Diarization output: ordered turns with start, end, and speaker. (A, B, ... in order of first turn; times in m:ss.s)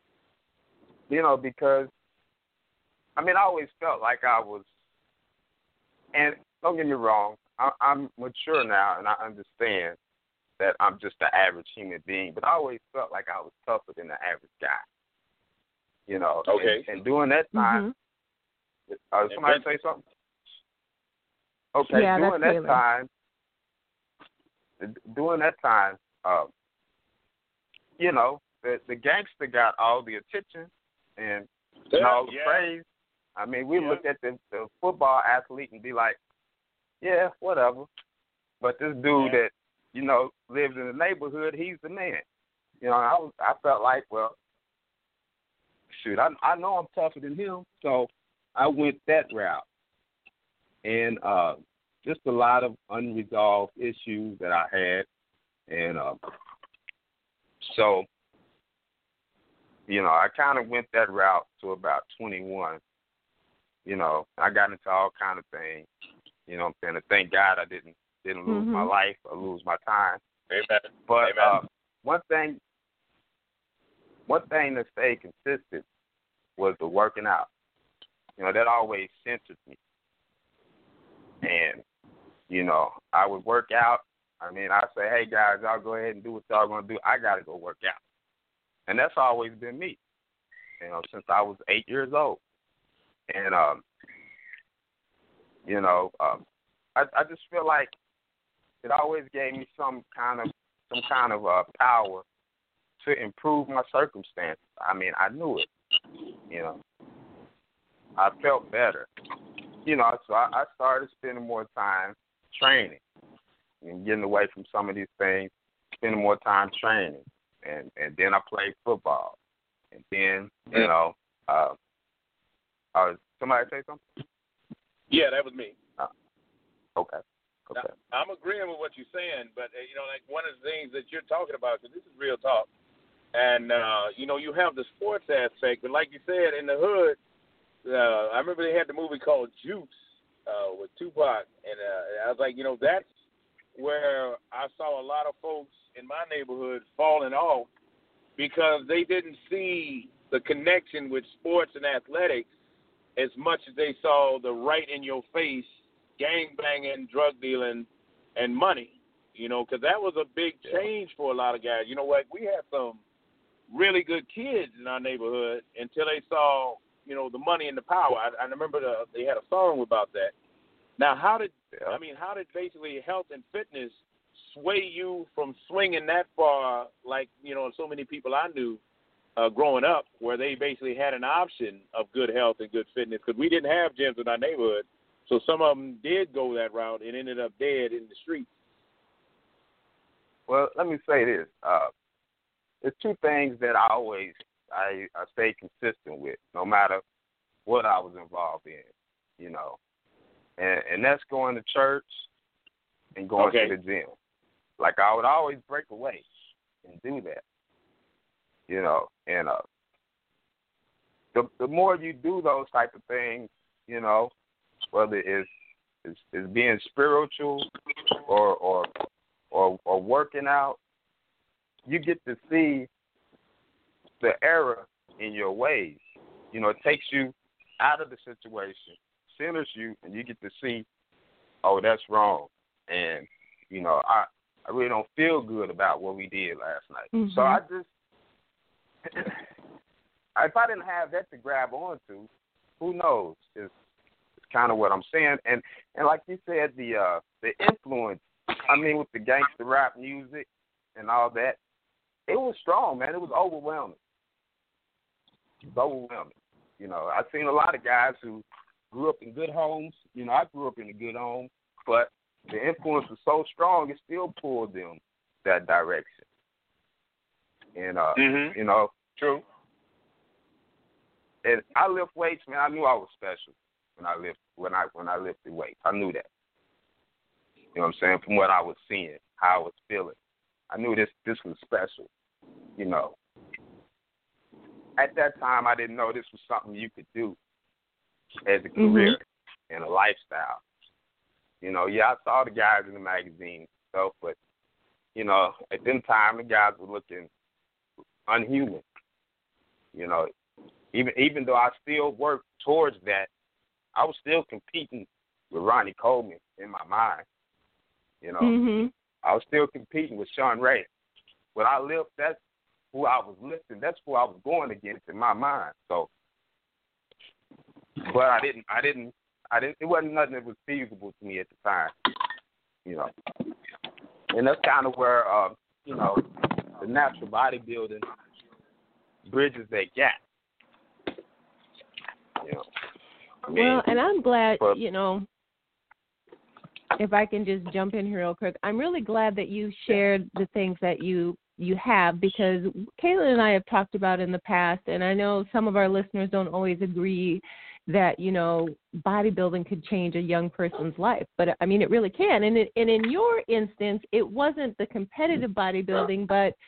0:01.1-0:01.9 A
0:03.2-0:04.7 A
0:06.1-0:10.0 A
0:10.6-0:14.8 A
0:16.1-0:17.8 A
0:16.5-0:16.8 B
0:17.5-0:17.9 C
0:18.9-0:20.0 A
0:19.3-0:19.6 B
0:21.7-0:23.1 A
0:21.9-0:22.8 C
0:24.8-0:26.5 A
0:28.0-0:32.8 A
0:31.9-0:32.6 B
0:33.4-0:36.2 A
0:33.8-0:34.0 B
0:37.0-0:37.9 A
0:38.6-0:42.2 A
0:42.8-0:44.4 A
0:45.9-0:49.6 A
0:50.8-0:55.1 A
0:55.7-0:56.2 A
0:57.6-0:58.1 A
0:59.9-1:02.8 A
1:03.8-1:05.9 A
1:06.5-1:10.2 A
1:08.5-1:08.9 C
1:10.5-1:11.6 B
1:11.1-1:12.6 A
1:14.3-1:15.8 A
1:16.6-1:17.5 A
1:18.4-1:19.8 A
1:21.4-1:21.8 A
1:22.5-1:28.0 A
1:28.9-1:30.0 A
1:30.8-1:32.4 A
1:33.3-1:33.8 A
1:35.6-1:36.4 A
1:37.0-1:37.9 A
1:38.8-1:42.2 A
1:43.0-1:45.7 A
1:46.5-1:46.8 A
1:48.2-1:49.1 A
1:49.8-1:53.0 A
1:53.8-1:59.4 A
1:59.9-2:01.8 A
2:02.9-2:04.0 A
2:05.1-2:05.7 B
2:07.0-2:07.9 A
2:07.7-2:12.7 B
2:13.3-2:17.2 B
2:17.8-2:19.9 B
2:20.4-2:23.0 B
2:23.8-2:27.7 B
2:28.4-2:32.5 B
2:33.2-2:35.7 B
2:36.2-2:43.0 B
2:43.7-2:50.3 B
2:51.0-2:58.8 B
2:51.7-2:52.0 A
2:59.4-3:08.5 B
3:10.5-3:11.9 A
3:12.8-3:17.0 A
3:17.6-3:18.9 A
3:19.4-3:19.8 A
3:20.6-3:22.3 A
3:23.1-3:24.1 A
3:23.4-3:23.7 B
3:24.8-3:26.2 A
3:26.8-3:27.4 A
3:28.7-3:29.6 A
3:31.3-3:34.3 A
3:34.9-3:35.5 A
3:36.0-3:37.7 A
3:38.2-3:38.9 A
3:39.5-3:40.8 A
3:41.8-3:42.9 A
3:44.2-3:46.0 A
3:46.5-3:50.8 A
3:51.6-3:57.9 A
3:57.1-3:57.6 C
3:59.1-3:59.4 A
4:00.4-4:02.3 A
4:02.8-4:03.7 A
4:04.5-4:11.6 A
4:12.3-4:14.0 A
4:15.6-4:26.2 A
4:27.8-4:28.9 A
4:28.2-4:28.6 B
4:31.4-4:36.3 A
4:37.7-4:40.2 A
4:40.7-4:42.1 A
4:42.8-4:43.2 A
4:45.0-4:47.4 A
4:48.4-4:50.6 A
4:48.8-4:49.2 C
4:51.6-4:54.4 A
4:55.1-4:57.3 A
4:58.3-4:58.8 A
4:59.9-5:00.3 A
5:00.9-5:03.3 A
5:03.9-5:07.2 A
5:08.2-5:08.5 A
5:08.4-5:08.9 C
5:09.2-5:10.9 A
5:11.5-5:12.4 A
5:12.9-5:16.1 A
5:18.0-5:21.9 A
5:24.3-5:26.2 A
5:26.8-5:28.0 A
5:29.2-5:30.2 A
5:33.5-5:33.8 A
5:33.5-5:35.2 C
5:37.0-5:56.5 C